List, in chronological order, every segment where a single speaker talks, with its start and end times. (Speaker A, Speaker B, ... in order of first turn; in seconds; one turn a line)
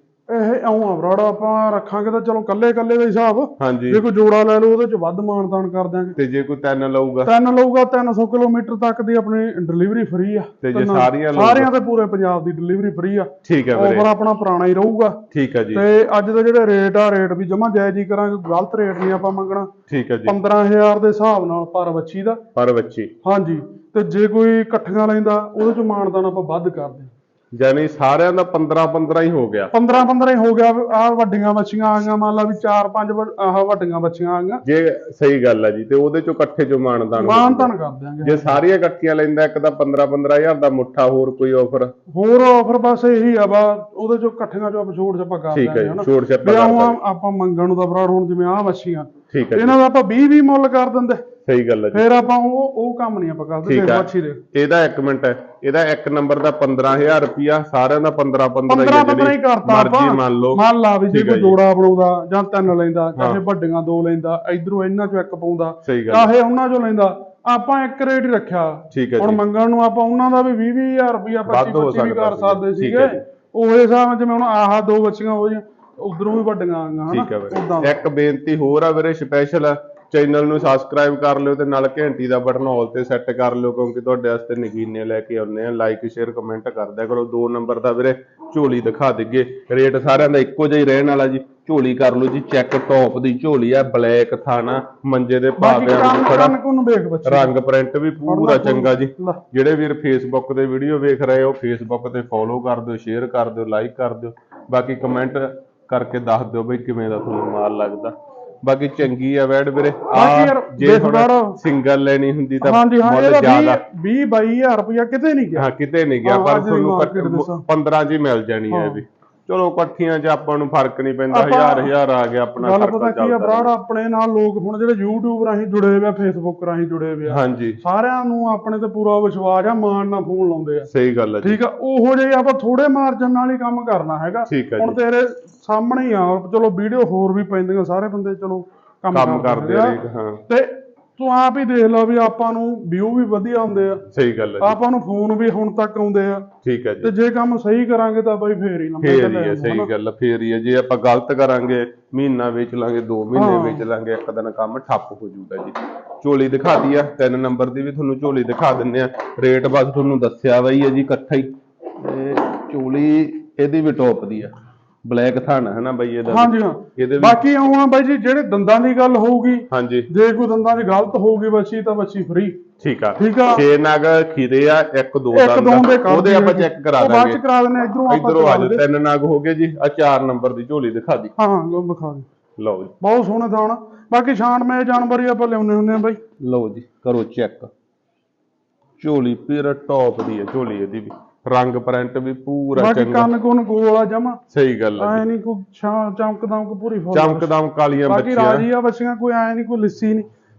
Speaker A: 0.3-6.2
Speaker B: 3.6-4.0
Speaker B: 6.2-7.3
Speaker A: 7.2-15.2
Speaker B: 10.6-11.7
Speaker B: 13.4-14.1
Speaker B: 15.3-15.8
Speaker A: 15.7-19.7
Speaker B: 19.9-20.4
Speaker A: 20.2-22.4
Speaker B: 22.5-23.1
Speaker A: 23.2-27.1
Speaker B: 27.5-29.7
Speaker A: 29.7-34.6
Speaker B: 34.6-37.7
Speaker A: 37.1-38.6
Speaker B: 38.2-41.9
Speaker A: 42.1-51.2
Speaker B: 45.5-47.0
Speaker B: 49.3-49.8
Speaker B: 51.4-52.0
Speaker A: 51.9-54.4
Speaker B: 53.6-61.5
Speaker A: 58.7-77.9
Speaker B: 65.8-66.3
Speaker B: 68.9-69.4
Speaker B: 71.5-73.2
Speaker B: 77.1-96.5
Speaker A: 95.6-97.5
Speaker B: 97.2-113.8
Speaker A: 98.2-99.4
Speaker A: 110.1-111.6
Speaker A: 112.6-115.7
Speaker B: 115.5-123.7
Speaker A: 116.2-117.6
Speaker A: 118.7-119.0
Speaker A: 121.3-121.9
Speaker A: 122.6-130.9
Speaker B: 127.3-127.8
Speaker B: 130.9-131.6
Speaker A: 131.4-144.0
Speaker B: 134.5-135.0
Speaker B: 139.1-140.4
Speaker B: 144.1-144.8
Speaker A: 144.6-146.5
Speaker B: 146.6-147.1
Speaker A: 147.0-149.9
Speaker B: 149.0-164.5
Speaker A: 153.3-153.8
Speaker B: 165.0-167.4
Speaker A: 166.3-172.6
Speaker B: 169.7-170.1
Speaker B: 172.8-177.4
Speaker A: 173.2-173.6
Speaker A: 175.3-178.8
Speaker B: 178.1-181.3
Speaker A: 181.4-182.3
Speaker B: 182.6-182.9
Speaker A: 183.0-186.2
Speaker B: 186.4-187.7
Speaker B: 189.0-193.3
Speaker A: 192.7-194.4
Speaker B: 194.5-195.2
Speaker A: 195.0-197.5
Speaker B: 197.1-198.7
Speaker A: 198.1-200.3